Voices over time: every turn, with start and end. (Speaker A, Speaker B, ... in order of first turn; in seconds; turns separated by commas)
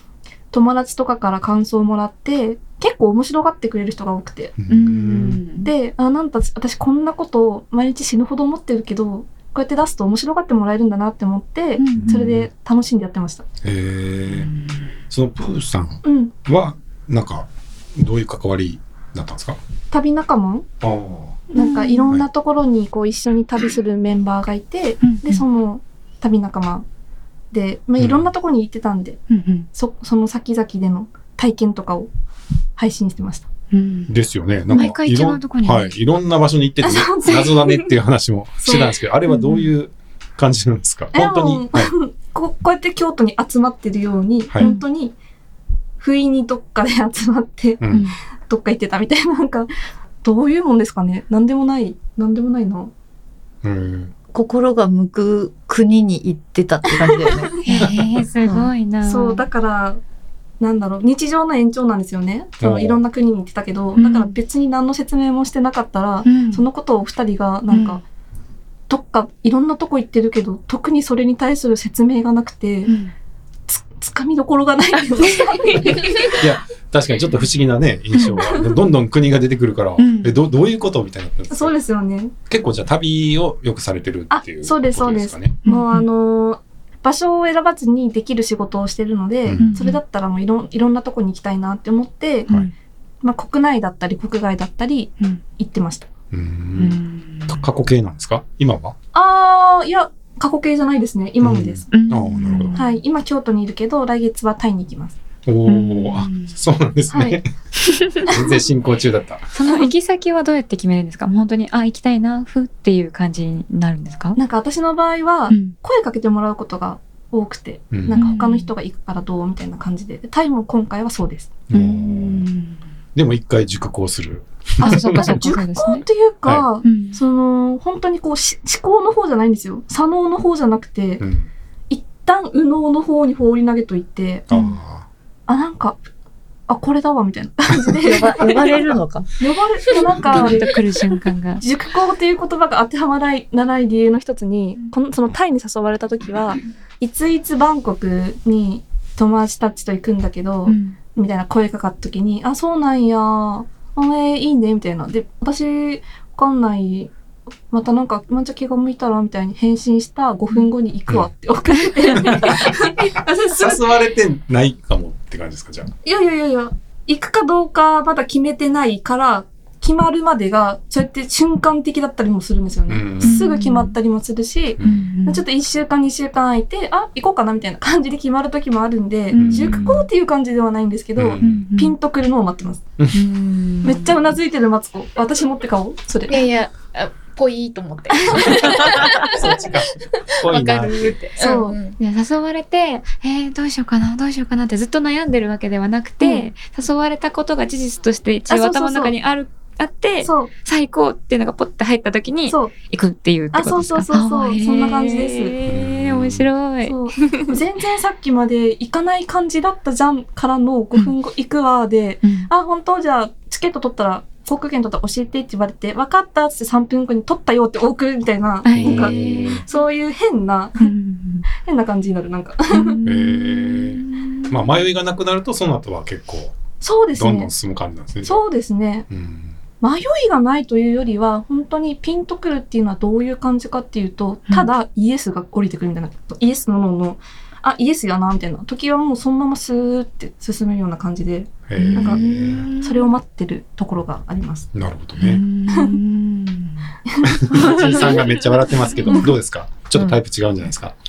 Speaker A: 0.5-4.5, Speaker B: 4.6-5.4, Speaker C: 4.7-5.7, Speaker A: 5.6-13.4, Speaker C: 11.8-12.3, Speaker B: 11.9-12.5, Speaker B: 13.6-14.5, Speaker C: 14.4-14.8, Speaker B: 15.1-19.6, Speaker A: 16.0-16.3, Speaker A: 19.9-20.7, Speaker B: 20.8-21.4, Speaker A: 21.5-26.9, Speaker C: 21.6-22.1, Speaker C: 25.0-25.4, Speaker A: 27.5-32.1, Speaker B: 28.0-28.3, Speaker C: 29.3-29.7, Speaker A: 32.8-33.5, Speaker C: 33.7-34.1, Speaker B: 34.1-42.0, Speaker C: 34.7-36.0, Speaker A: 36.8-37.6, Speaker A: 38.6-38.9, Speaker C: 39.3-39.7, Speaker A: 41.1-45.1, Speaker C: 44.6-44.8, Speaker A: 46.0-47.8, Speaker B: 47.8-48.1, Speaker C: 47.9-48.2, Speaker A: 48.5-49.7, Speaker A: 50.2-52.9, Speaker B: 53.6-54.1, Speaker D: 54.3-57.6, Speaker A: 57.0-57.6, Speaker C: 57.6-59.5, Speaker B: 57.8-58.0, Speaker D: 58.4-58.7, Speaker A: 59.0-60.0, Speaker A: 60.6-68.0, Speaker B: 62.6-63.0, Speaker C: 64.0-64.4, Speaker C: 66.2-66.7, Speaker C: 67.7-68.0, Speaker A: 68.9-72.9, Speaker C: 72.9-73.1, Speaker A: 73.7-76.4, Speaker C: 75.2-76.3, Speaker B: 76.3-81.8, Speaker C: 80.0-80.4, Speaker A: 81.5-82.3, Speaker B: 82.5-85.6, Speaker A: 84.3-92.5, Speaker C: 85.6-86.1, Speaker B: 89.5-89.8, Speaker C: 89.6-90.0, Speaker C: 92.5-92.7, Speaker A: 93.2-96.1, Speaker B: 96.3-99.0, Speaker C: 96.8-97.6, Speaker A: 99.1-101.9, Speaker B: 101.4-102.8, Speaker C: 101.9-102.9, Speaker A: 102.8-105.2, Speaker B: 105.5-107.5, Speaker C: 105.7-106.6, Speaker A: 107.1-107.4, Speaker C: 107.8-108.3, Speaker B: 108.1-109.5, Speaker C: 109.5-114.4, Speaker A: 109.7-109.9, Speaker A: 114.4-121.5, Speaker C: 115.5-115.8, Speaker B: 117.9-118.3, Speaker C: 118.1-118.7, Speaker B: 121.7-122.5, Speaker C: 121.7-122.8, Speaker B: 123.2-125.5, Speaker C: 124.8-126.0, Speaker A: 124.8-131.2, Speaker C: 126.8-127.2, Speaker B: 131.2-131.5, Speaker A: 131.9-134.5, Speaker B: 134.5-135.1, Speaker C: 134.5-134.8, Speaker A: 135.5-136.0, Speaker A: 136.7-138.8, Speaker D: 138.0-139.3, Speaker A: 139.4-141.0, Speaker C: 140.2-141.6, Speaker A: 141.6-157.1, Speaker C: 150.7-151.0, Speaker A: 157.7-163.9, Speaker B: 162.1-165.9, Speaker A: 166.1-182.8, Speaker B: 172.9-173.4, Speaker C: 173.2-174.0, Speaker B: 174.8-175.1, Speaker C: 174.8-175.4, Speaker C: 179.3-180.1, Speaker B: 179.3-180.0, Speaker B: 181.2-181.7, Speaker C: 181.4-181.9, Speaker B: 183.0-183.2, Speaker C: 183.1-184.2, Speaker A: 183.8-186.4, Speaker E: 186.3-192.0, Speaker C: 188.3-188.7, Speaker B: 188.5-191.2, Speaker A: 191.4-191.8, Speaker C: 192.0-207.6, Speaker A: 196.2-196.5, Speaker A: 198.5-199.2, Speaker A: 200.2-200.5, Speaker A: 202.5-202.8, Speaker A: 203.5-205.5, Speaker B: 205.7-206.5, Speaker A: 206.8-220.9, Speaker C: 212.2-212.5, Speaker C: 218.7-219.7, Speaker B: 218.7-219.6, Speaker C: 220.8-221.5, Speaker A: 221.5-223.0, Speaker C: 222.7-224.6, Speaker B: 223.0-226.6, Speaker A: 226.8-227.5, Speaker B: 227.1-228.4, Speaker A: 228.2-229.1, Speaker B: 229.1-229.6, Speaker A: 229.8-244.7, Speaker B: 241.7-242.7, Speaker C: 241.8-243.0, Speaker B: 244.7-245.4, Speaker C: 245.2-246.9, Speaker A: 247.1-248.1, Speaker B: 247.3-251.0, Speaker C: 247.5-248.2, Speaker C: 249.0-249.3